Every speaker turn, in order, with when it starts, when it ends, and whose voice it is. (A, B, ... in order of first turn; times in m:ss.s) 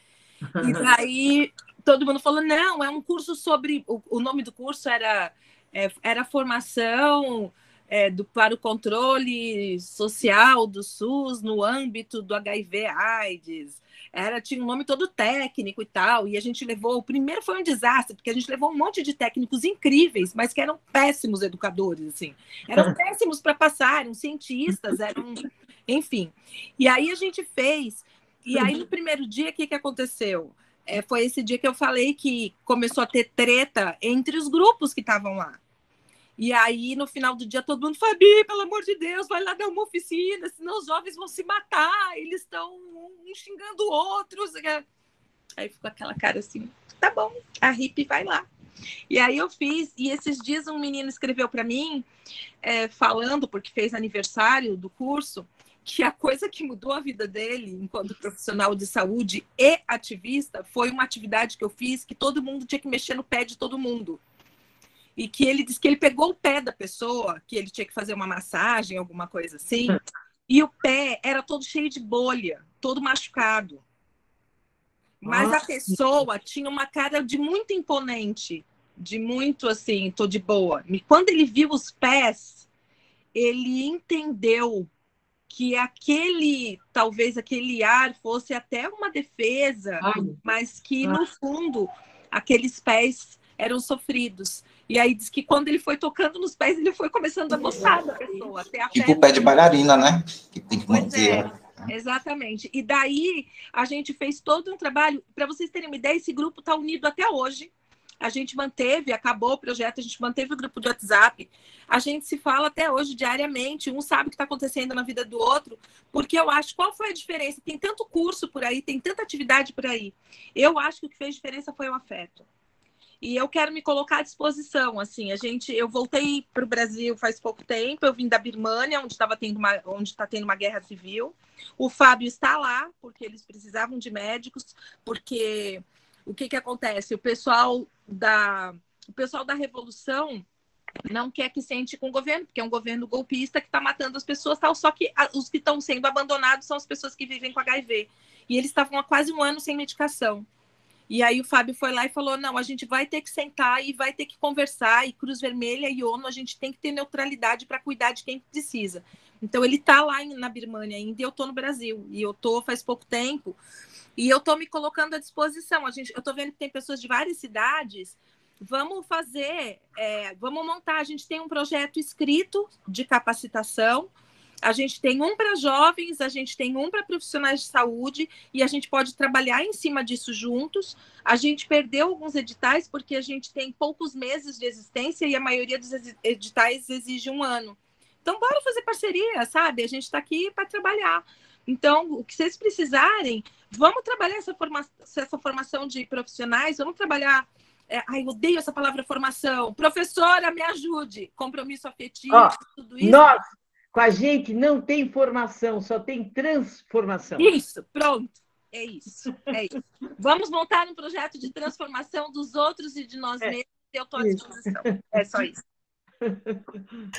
0:00.6-0:00.9 A
0:00.6-0:35.6 B
0:36.4-0:44.8 B
0:45.6-0:48.5 B
0:49.1-0:52.1 B
0:52.6-1:04.2 B
1:05.2-1:13.8 B
1:15.2-1:16.0 A
1:15.2-1:22.6 B
1:23.3-1:24.9 B
1:25.5-1:39.4 B
1:30.0-1:30.4 A
1:38.9-1:41.9 C
1:40.9-2:02.4 B
2:03.2-2:20.4 B
2:21.0-2:30.4 B
2:31.1-2:43.6 B
2:44.2-2:54.1 B
2:54.6-3:23.4 B
3:22.3-3:23.4 A
3:23.9-3:27.5 A
3:27.4-3:35.6 B
3:34.2-3:35.2 A
3:36.2-3:36.6 A